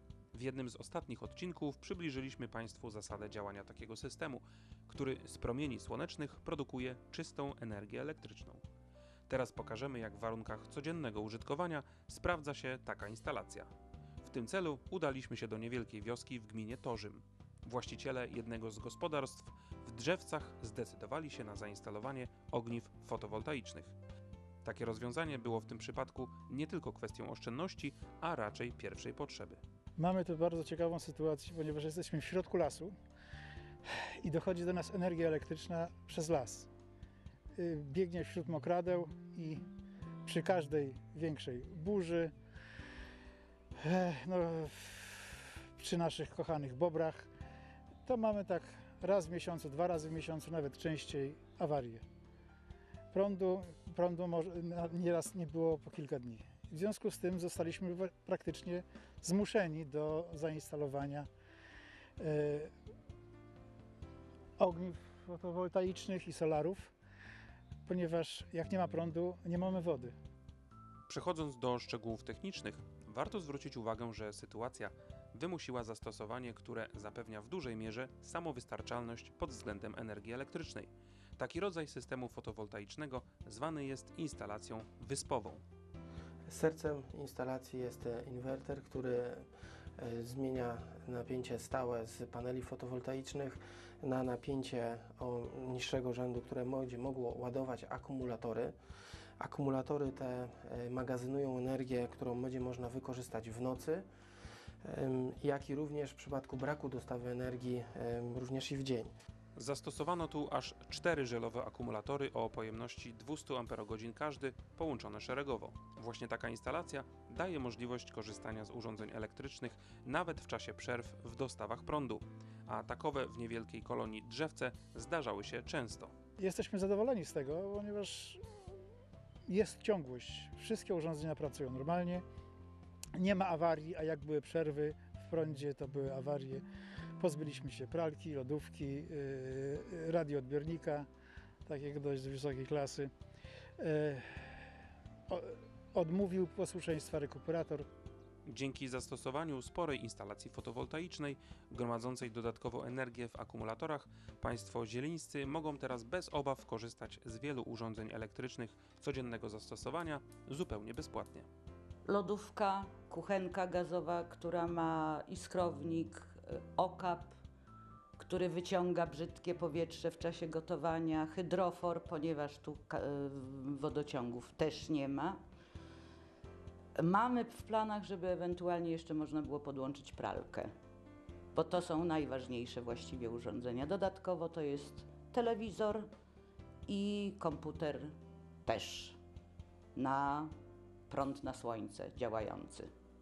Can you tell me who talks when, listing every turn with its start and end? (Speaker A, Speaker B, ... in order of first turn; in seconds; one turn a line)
Speaker A: 0.3-8.6
Speaker A: 9.3-13.7
Speaker A: 14.2-24.0
Speaker A: 24.6-29.6
Speaker B: 30.0-32.9
Speaker B: 33.9-36.7
Speaker B: 37.5-39.6
Speaker B: 40.2-42.3
Speaker B: 43.8-47.3
Speaker B: 48.0-52.0
Speaker B: 53.1-61.3
Speaker B: 62.2-62.7
Speaker B: 64.6-66.9
Speaker B: 67.8-70.2
Speaker A: 71.1-85.6
Speaker C: 86.5-89.5
Speaker C: 90.0-98.8
Speaker C: 99.4-104.1
Speaker C: 104.8-109.1
Speaker A: 109.6-126.1
Speaker B: 126.4-128.4
Speaker B: 129.5-132.2
Speaker B: 133.2-136.6
Speaker B: 137.2-141.1
Speaker B: 141.7-143.1
Speaker B: 143.8-144.5
Speaker B: 145.3-147.9
Speaker A: 148.4-161.5
Speaker D: 162.1-167.3
Speaker D: 168.2-175.4
Speaker D: 176.9-180.7
Speaker D: 181.5-186.1
Speaker D: 186.9-188.1
Speaker D: 188.6-189.2
Speaker D: 189.9-190.5
Speaker D: 191.1-192.9